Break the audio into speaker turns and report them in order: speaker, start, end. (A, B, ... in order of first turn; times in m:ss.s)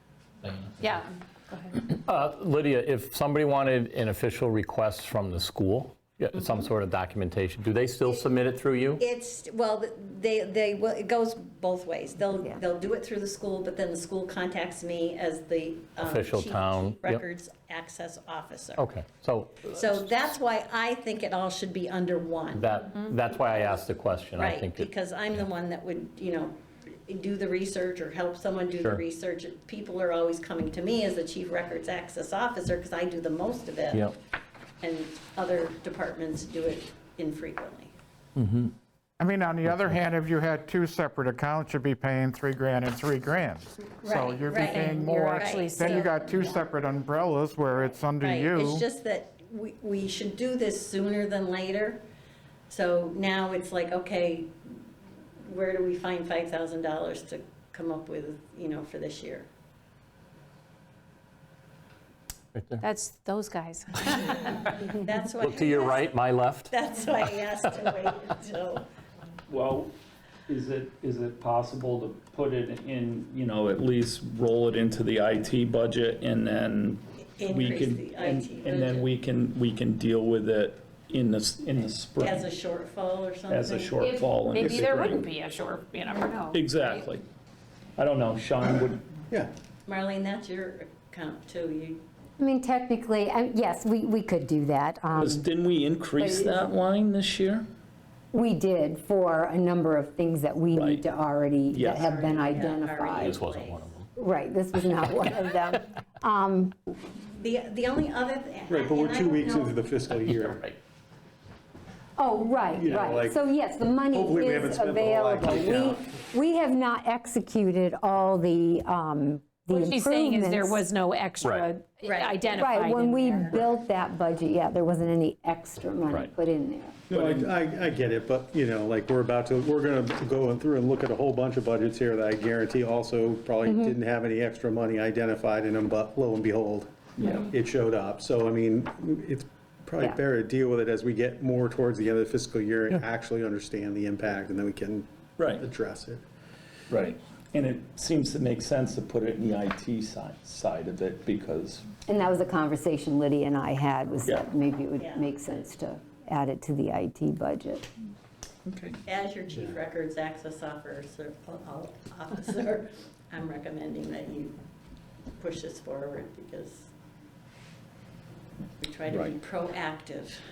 0:00.4-0:00.9 A
0:00.8-0:01.8 B
0:01.9-0:09.0 A
0:09.0-0:18.9 C
0:16.0-0:17.2 A
0:18.8-0:20.2 A
0:19.7-0:22.7 C
0:22.5-0:24.9 A
0:24.4-0:34.1 C
0:34.8-0:37.9 C
0:38.4-0:38.7 A
0:39.2-0:48.8 D
0:39.7-0:39.9 A
0:44.0-0:46.2 C
0:44.9-0:46.7 B
0:48.2-0:52.0 C
0:52.7-0:54.8 C
0:55.4-0:59.5 C
1:02.6-1:02.8 A
1:02.8-1:04.7 B
1:04.6-1:08.8 C
1:05.4-1:06.7 A
1:07.3-1:07.9 A
1:09.5-1:09.9 E
1:10.5-1:22.5 E
1:17.4-1:19.1 C
1:22.2-1:24.0 C
1:23.5-1:25.3 E
1:24.0-1:27.0 B
1:26.5-1:27.2 E
1:28.0-1:29.1 E
1:29.9-1:32.0 C
1:32.4-1:35.5 F
1:35.2-1:37.6 E
1:36.2-1:36.6 F
1:38.3-1:43.4 F
1:40.7-1:41.1 E
1:41.7-1:42.0 E
1:41.9-1:43.9 C
1:43.2-1:44.1 A
1:44.2-1:46.8 F
1:47.4-1:50.0 C
1:48.7-1:50.6 G
1:50.1-1:50.8 A
1:52.2-2:00.8 F
1:52.7-1:53.5 G
1:54.1-1:56.1 G
1:59.7-2:03.6 B
2:01.4-2:01.7 A
2:02.0-2:03.6 C
2:02.6-2:07.0 F
2:07.1-2:26.2 G
2:07.1-2:07.6 E
2:13.6-2:14.0 F
2:17.2-2:17.5 E
2:25.4-2:25.7 E
2:26.9-2:31.9 E
2:32.1-2:37.9 F
2:35.0-2:35.3 C
2:38.7-2:39.0 E
2:39.0-2:44.6 C
2:45.4-2:46.9 C
2:48.8-2:50.4 C